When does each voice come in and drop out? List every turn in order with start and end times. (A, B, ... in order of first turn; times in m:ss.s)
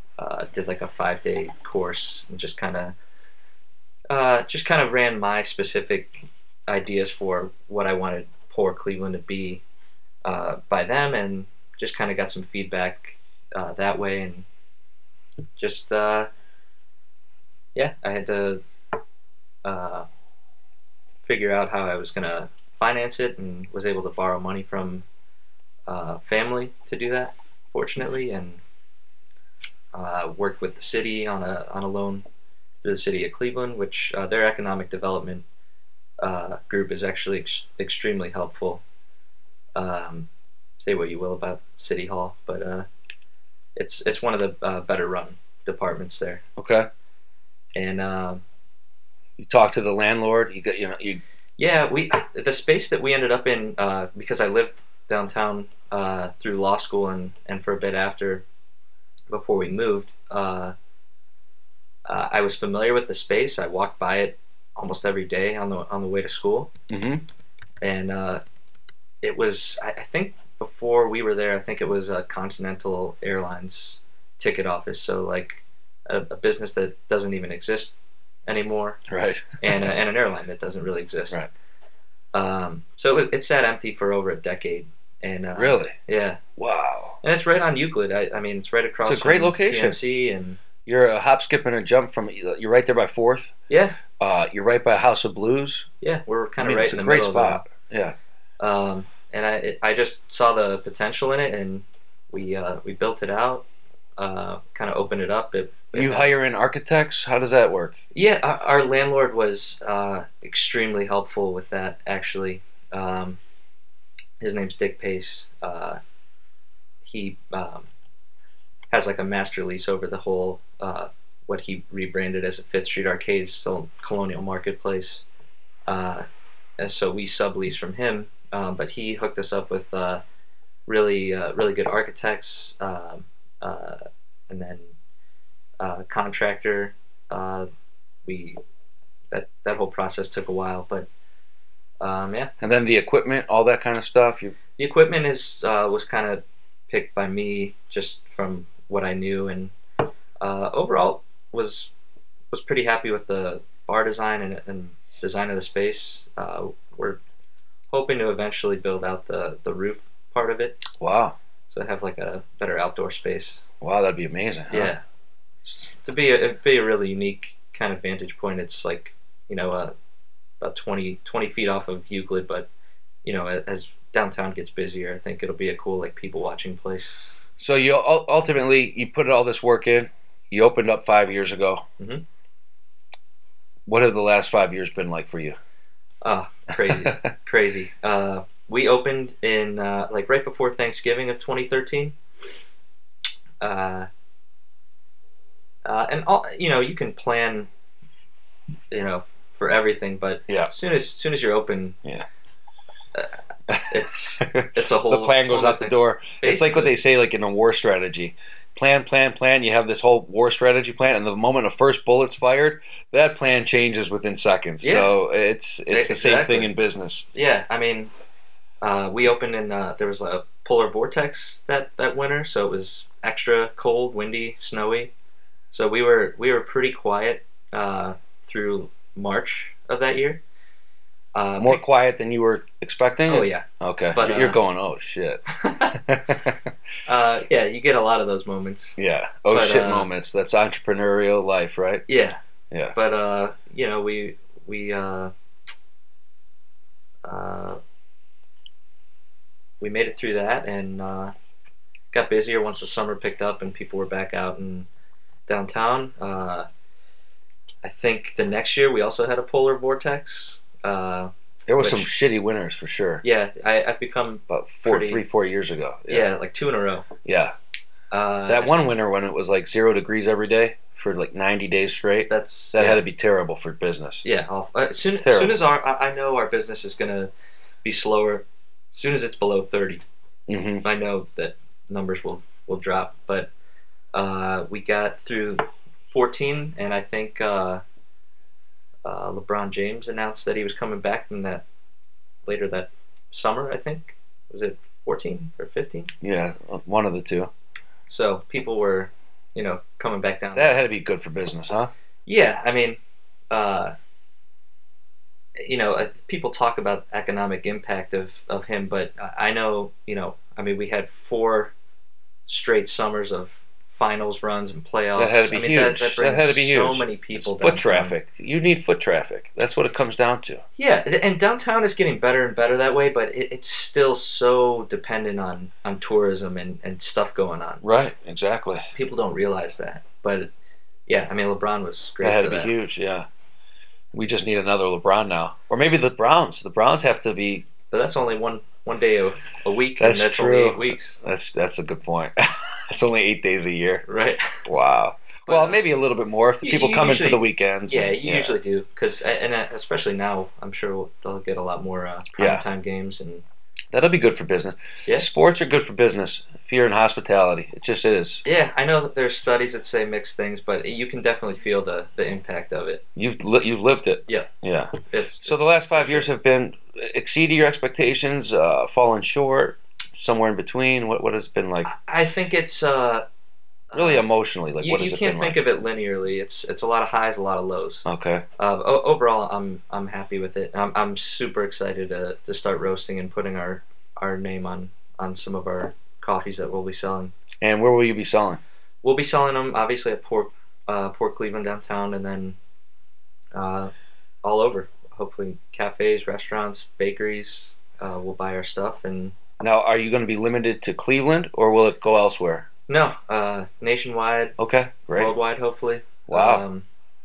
0:00.2-0:02.9 A
0:04.1-0:09.6 A
0:10.2-0:14.5 A
0:15.6-0:16.3 A
0:17.8-0:18.6 A
0:19.6-0:20.1 A
0:21.2-0:25.0 A
0:25.9-0:28.6 A
0:29.9-0:32.2 A
0:32.8-0:35.4 A
0:36.2-0:38.8 A
0:39.8-0:40.3 A
0:40.8-0:42.9 A
0:43.8-0:46.4 A
0:46.6-0:46.9 B
0:47.8-0:48.4 A
0:49.4-0:51.2 B
0:51.6-0:58.4 A
0:59.3-1:00.7 A
1:02.1-1:06.7 A
1:06.9-1:07.2 B
1:07.8-1:08.4 A
1:09.2-1:18.0 A
1:18.5-1:19.0 A
1:19.1-1:19.9 B
1:19.6-1:21.4 A
1:22.3-1:26.4 A
1:25.6-1:26.0 B
1:26.6-1:27.2 B
1:27.2-1:30.6 A
1:29.0-1:30.0 B
1:30.9-1:33.5 B
1:33.7-1:34.0 A
1:34.2-1:35.9 B
1:36.0-1:37.6 A
1:36.6-1:38.2 B
1:38.6-1:43.6 A
1:44.2-1:46.3 A
1:45.9-1:48.0 B
1:48.1-1:53.4 A
1:54.4-1:56.0 A
1:57.0-1:57.9 A
1:58.9-2:05.2 A
2:05.9-2:06.2 A
2:06.8-2:10.2 A
2:10.9-2:14.9 A
2:15.8-2:17.7 A
2:18.2-2:18.6 A
2:19.3-2:21.1 A
2:22.0-2:22.5 A
2:22.6-2:24.6 B
2:24.8-2:29.7 A
2:30.4-2:31.9 A
2:32.5-2:37.2 A
2:37.9-2:40.8 A
2:40.9-2:41.4 B
2:41.7-2:43.6 A
2:43.8-2:44.9 B
2:44.7-2:45.0 A
2:46.0-2:49.9 A
2:50.6-2:52.7 A
2:53.2-2:57.1 A
2:57.6-3:01.8 B
3:02.0-3:02.2 A
3:03.9-3:05.6 B
3:06.2-3:12.2 A
3:06.9-3:07.3 B
3:13.6-3:14.1 A
3:15.8-3:17.7 A
3:18.9-3:22.0 A
3:23.7-3:37.3 B
3:23.9-3:27.0 A
3:34.8-3:35.1 A
3:35.9-3:36.7 A
3:37.3-3:38.1 A
3:38.8-3:45.1 A
3:45.7-3:50.4 A
3:51.4-3:51.8 A
3:51.6-3:56.6 B
3:53.3-3:54.6 A
3:55.5-3:56.0 A
3:57.1-3:59.0 A
3:59.0-4:02.1 B
3:59.5-4:00.1 A
4:02.1-4:02.4 A
4:02.7-4:03.0 B
4:03.0-4:05.3 A
4:07.2-4:07.8 A
4:09.8-4:11.3 A
4:12.1-4:14.9 A
4:15.5-4:16.7 A
4:17.8-4:22.1 A
4:21.7-4:23.2 B
4:23.2-4:25.2 A
4:24.5-4:26.3 B
4:26.1-4:27.1 A
4:27.2-4:27.5 B
4:28.1-4:28.7 A
4:28.5-4:34.2 B
4:32.3-4:33.0 A
4:34.2-4:37.3 A
4:35.2-4:35.6 B
4:37.8-4:40.0 A
4:40.5-4:40.9 B
4:40.8-4:43.5 A
4:44.1-4:47.8 A
4:49.0-4:51.6 A
4:52.5-4:56.1 A
4:56.2-4:57.5 B
4:58.1-5:00.8 A
5:00.6-5:01.9 B
5:02.3-5:03.0 A
5:03.5-5:03.9 A
5:05.6-5:11.7 A
5:12.5-5:18.1 A
5:15.2-5:20.6 B
5:20.8-5:27.8 A
5:27.8-5:28.9 B
5:28.9-5:30.5 A
5:31.1-5:32.7 A
5:32.2-5:33.3 B
5:34.1-5:37.7 B
5:37.9-5:41.2 A
5:40.0-5:44.1 B
5:44.1-5:44.6 A
5:44.6-5:48.6 B
5:45.5-5:45.8 A
5:46.6-5:53.4 A
5:52.4-5:52.6 B
5:53.9-5:58.4 B
5:58.4-6:03.0 A
6:03.2-6:11.9 B
6:05.1-6:06.3 A
6:11.9-6:13.2 A
6:13.9-6:14.3 A
6:13.9-6:15.6 B
6:14.8-6:18.1 A
6:18.0-6:18.4 B
6:18.6-6:27.3 A
6:27.6-6:28.6 B
6:29.0-6:32.6 A
6:33.5-6:33.9 A
6:34.4-6:39.4 A
6:39.6-6:42.7 B
6:42.9-6:44.6 A
6:44.6-6:45.3 B
6:45.1-6:46.8 A
6:46.3-6:46.6 B